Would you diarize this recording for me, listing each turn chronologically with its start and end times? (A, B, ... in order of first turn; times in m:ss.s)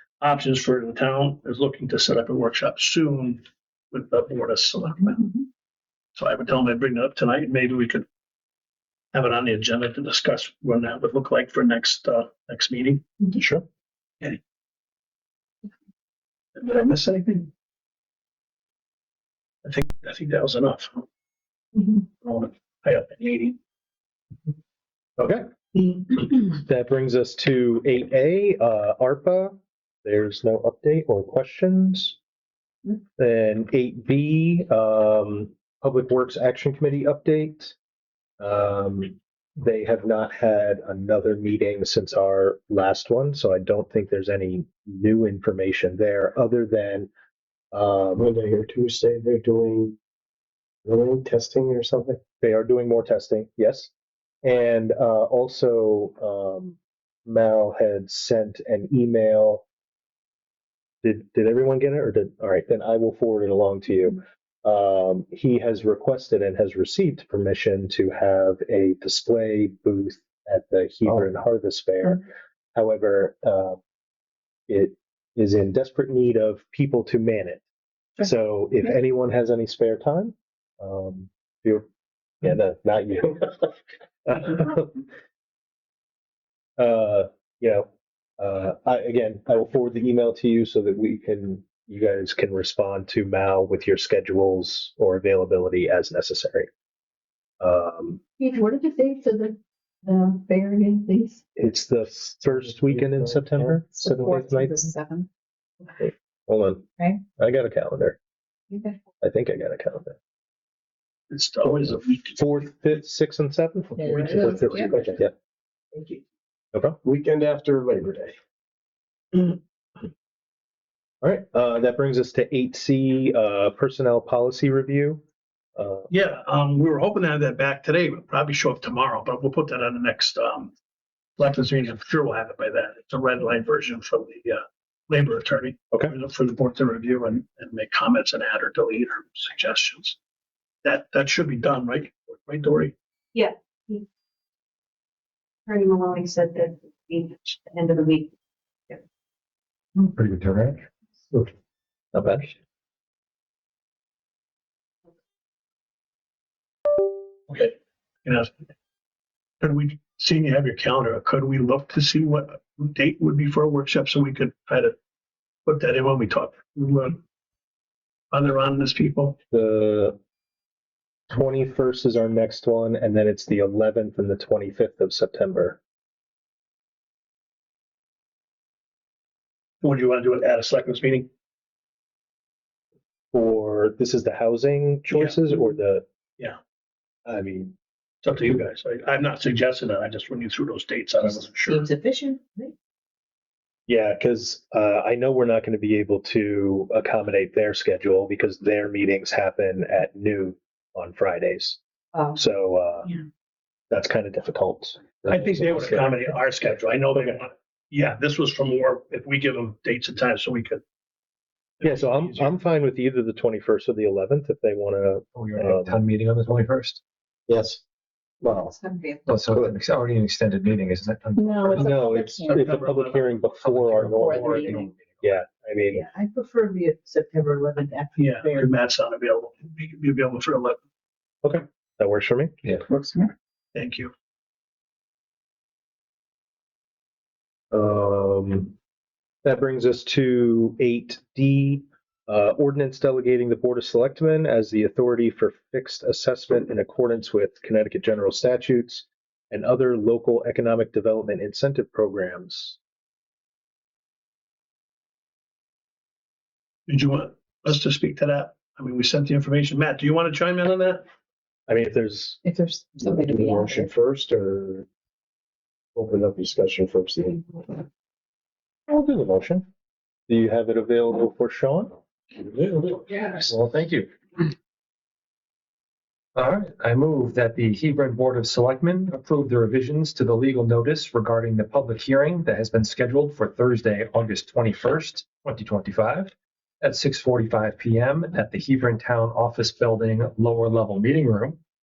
0:00.2-0:05.4 A
0:06.1-0:08.0 A
0:09.1-0:13.0 A
0:13.4-0:13.6 B
0:16.6-0:17.5 A
0:19.6-0:21.0 A
0:21.8-0:23.6 A
0:25.2-0:32.2 B
0:33.2-0:37.8 B
0:38.4-0:47.1 B
0:47.7-0:48.3 B
0:48.2-0:50.0 C
0:50.8-0:52.2 C
0:52.4-0:53.9 B
0:54.4-0:59.6 B
1:01.0-1:13.8 B
1:14.7-1:17.6 B
1:18.2-1:21.9 B
1:22.4-1:25.0 B
1:26.8-1:27.9 B
1:28.4-1:36.7 B
1:37.6-1:38.2 B
1:38.4-1:41.4 D
1:41.6-1:44.9 B
1:42.5-1:43.8 C
1:43.9-1:45.3 D
1:46.0-1:48.2 B
1:48.7-1:49.0 D
1:49.2-1:50.2 B
1:51.3-1:52.6 A
1:51.7-1:55.3 B
1:54.0-1:55.0 D
1:54.3-1:55.2 C
1:55.9-1:56.2 D
1:57.0-1:58.4 C
2:01.2-2:05.2 B
2:05.8-2:06.1 B
2:06.1-2:10.7 A
2:11.4-2:20.2 A
2:20.8-2:22.9 A
2:23.3-2:24.0 D
2:25.6-2:28.3 D
2:30.0-2:30.8 E
2:32.1-2:32.5 B
2:37.5-2:38.7 A
2:39.6-2:45.0 A
2:45.6-2:47.2 A
2:48.3-2:49.4 A
2:49.5-2:50.2 B
2:51.3-2:55.8 B
2:59.8-3:01.3 A
3:03.3-3:06.0 B
3:05.1-3:05.4 A
3:07.2-3:07.7 B
3:08.2-3:11.9 A
3:11.4-3:12.7 D
3:13.9-3:21.8 B
3:22.1-3:22.4 D
3:22.3-3:23.1 B
3:23.9-3:26.4 B
3:25.3-3:30.8 A
3:27.1-3:27.4 B
3:31.8-3:32.6 A
3:31.8-3:36.0 B
3:35.4-3:37.0 E
3:37.5-3:37.8 B
3:38.4-3:38.8 B
3:38.7-3:39.2 D
3:39.3-3:42.0 E
3:39.5-3:39.7 B
3:41.4-3:42.7 D
3:41.7-3:46.0 B
3:41.8-3:43.4 A
3:43.6-3:45.3 E
3:44.1-3:44.8 D
3:45.9-3:48.7 D
3:48.2-3:50.8 A
3:51.4-3:52.6 B
3:52.8-3:53.3 D
3:53.7-3:54.1 A
3:57.7-3:58.7 B
3:59.4-4:12.8 B
4:16.9-4:21.0 A
4:21.7-4:22.4 B
4:22.4-4:23.9 D
4:23.0-4:24.8 C
4:25.9-4:27.8 C
4:28.9-4:29.7 B
4:30.3-4:31.9 B
4:32.6-4:33.1 C
4:33.2-4:34.4 E
4:36.4-4:51.6 E